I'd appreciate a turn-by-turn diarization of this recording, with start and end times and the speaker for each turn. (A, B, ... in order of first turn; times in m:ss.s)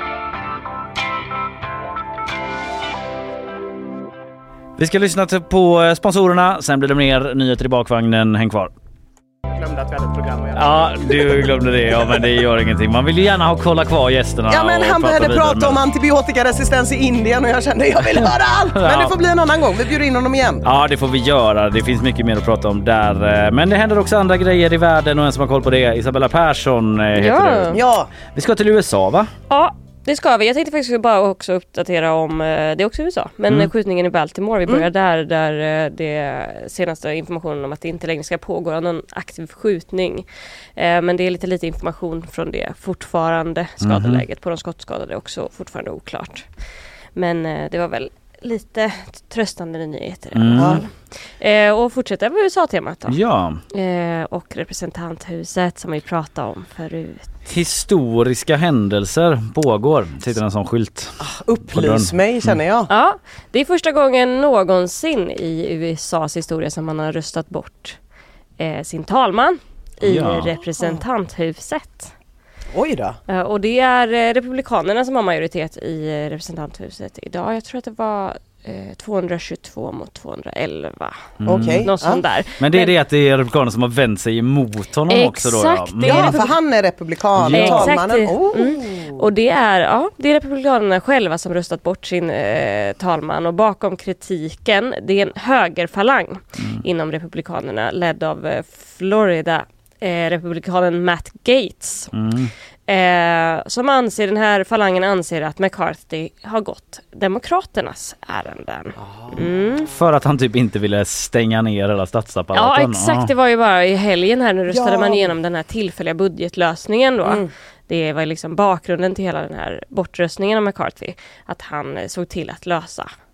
0:04.8-0:08.7 A
0:09.5-0:12.2 B
0:10.6-0:15.8 A
0:14.5-0:20.6 B
0:18.2-0:19.1 A
0:20.6-0:27.8 A
0:27.2-0:27.8 C
0:27.7-0:28.1 B
0:28.3-0:29.3 A
0:29.5-0:46.5 C
0:43.8-0:44.2 A
0:47.2-0:53.2 C
0:50.3-0:50.8 A
0:50.6-0:50.8 B
0:53.1-0:53.6 A
0:53.7-0:57.4 C
0:57.5-1:02.6 A
1:01.2-1:02.9 B
1:02.9-1:08.0 C
1:08.6-1:12.1 C
1:10.0-1:10.5 A
1:12.7-1:13.2 B
1:13.3-1:22.9 C
1:21.4-1:21.9 A
1:21.4-1:22.2 B
1:22.6-1:26.5 A
1:25.1-1:26.5 C
1:26.0-1:29.2 B
1:27.4-1:28.0 A
1:27.5-1:42.1 C
1:36.6-1:36.8 A
1:42.1-1:42.5 A
1:42.9-1:49.9 C
1:49.0-1:49.4 B
1:49.9-1:53.3 A
1:52.5-2:03.1 C
1:54.7-1:55.3 B
1:57.2-1:57.5 B